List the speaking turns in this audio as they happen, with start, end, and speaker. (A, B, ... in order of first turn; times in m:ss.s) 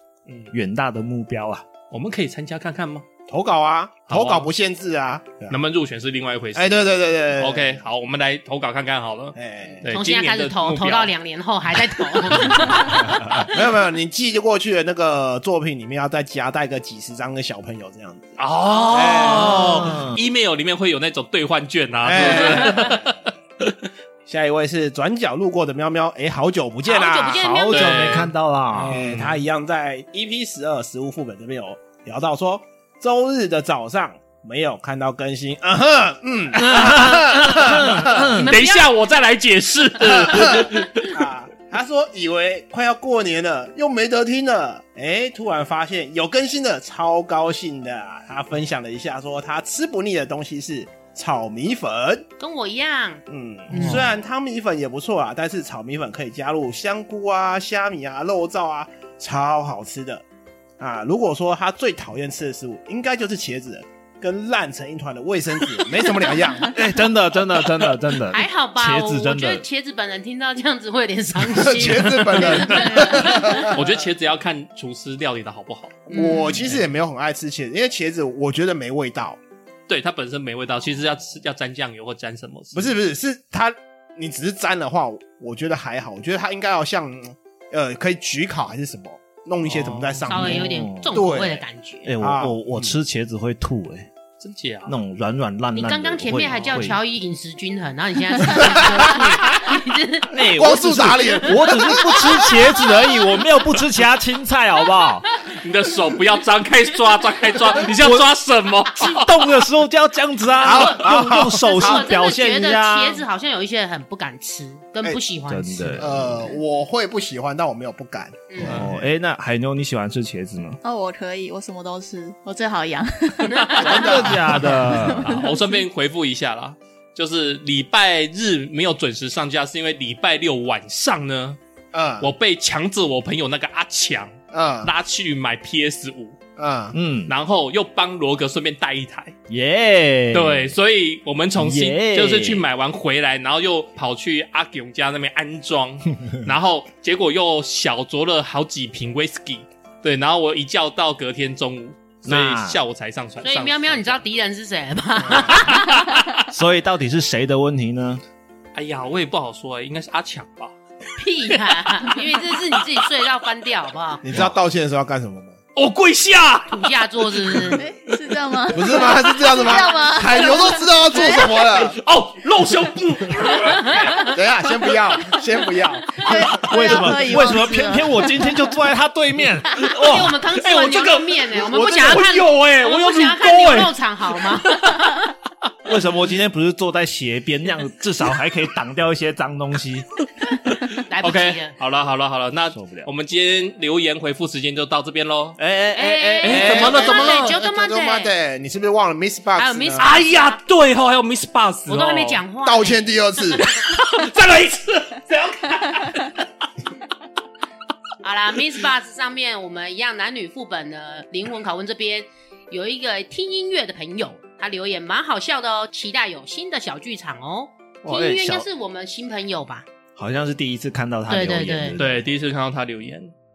0:00.3-0:00.5 A
0:00.5-0:01.7 B
0:01.9-0:03.0 C
0:03.3-0:05.6 A
0:04.1-0:04.5 C
0:05.5-0:11.1 C
0:06.6-0:07.8 A
0:09.4-0:09.9 A
0:09.9-0:13.4 D
0:12.2-0:12.9 C
0:13.1-0:18.4 A
0:18.4-0:23.8 C
0:18.9-0:19.6 D
0:18.9-0:20.0 A
0:19.6-0:20.2 B
0:22.0-0:23.2 A
0:24.3-0:27.5 A
0:26.8-0:28.1 D
0:27.3-0:29.0 B
0:27.7-0:28.3 C
0:28.8-0:38.4 A
0:28.9-0:29.4 C
0:36.6-0:38.5 B
0:36.8-0:37.4 C
0:38.3-0:38.9 D
0:38.4-0:41.2 C
0:40.0-0:52.3 A
0:52.4-0:54.0 D
0:53.3-1:00.2 A
0:53.7-0:54.0 B
1:00.8-1:06.8 A
1:06.7-1:09.6 B
1:08.3-1:13.7 D
1:11.5-1:13.9 A
1:12.6-1:16.1 C
1:16.1-1:19.4 A
1:16.1-1:16.6 D
1:19.9-1:22.9 C
1:22.7-1:31.6 A
1:29.7-1:30.2 C
1:30.3-1:32.1 D
1:30.3-1:31.2 B
1:32.0-1:34.1 B
1:32.2-1:33.0 A
1:34.4-1:35.0 C
1:34.9-1:37.0 B
1:35.7-1:40.3 D
1:38.6-1:39.1 A
1:40.3-1:45.3 B
1:40.5-1:42.5 A
1:45.5-1:49.4 C
1:47.9-1:48.3 B
1:49.0-1:53.2 B
1:50.6-1:56.1 D
1:50.6-1:52.1 A
1:55.5-1:56.5 B
1:56.0-1:59.1 A
1:58.5-1:58.8 D
1:58.6-2:00.8 B
2:00.8-2:05.7 E
2:03.5-2:04.3 D
2:03.8-2:04.8 A
2:03.8-2:05.4 B
2:05.1-2:11.6 C
2:11.9-2:12.3 A
2:12.2-2:16.4 C
2:14.5-2:14.9 A
2:16.6-2:17.0 A
2:16.9-2:17.3 B
2:17.3-2:19.4 C
2:19.5-2:20.8 B
2:20.3-2:34.2 C
2:21.6-2:22.7 B
2:32.3-2:32.8 B
2:33.4-2:36.2 D
2:35.2-2:35.6 A
2:35.7-2:36.4 C
2:36.5-2:38.2 B
2:38.8-2:40.7 C
2:41.2-2:44.2 D
2:41.5-2:42.2 C
2:44.2-2:45.6 A
2:44.3-2:44.6 B
2:45.8-2:48.2 C
2:46.7-2:47.8 D
2:47.7-2:51.5 E
2:48.7-2:52.0 A
2:48.9-2:49.8 C
2:51.3-2:54.3 C
2:53.6-2:54.3 D
2:54.3-2:56.9 A
2:56.2-2:58.6 E
2:56.6-3:00.4 B
2:59.8-3:05.3 D
3:00.5-3:05.1 C
3:05.9-3:10.1 B
3:10.5-3:15.6 C
3:11.1-3:11.8 D
3:12.7-3:13.1 B
3:15.6-3:17.0 B
3:15.9-3:18.3 D
3:16.4-3:17.6 C
3:16.6-3:20.1 A
3:19.6-3:20.6 D
3:20.0-3:22.4 C
3:21.9-3:23.6 D
3:22.6-3:23.6 A
3:23.6-3:26.5 C
3:28.2-3:39.9 D
3:38.0-3:38.7 B
3:40.2-3:42.3 B
3:41.3-3:42.0 D
3:42.0-3:43.3 C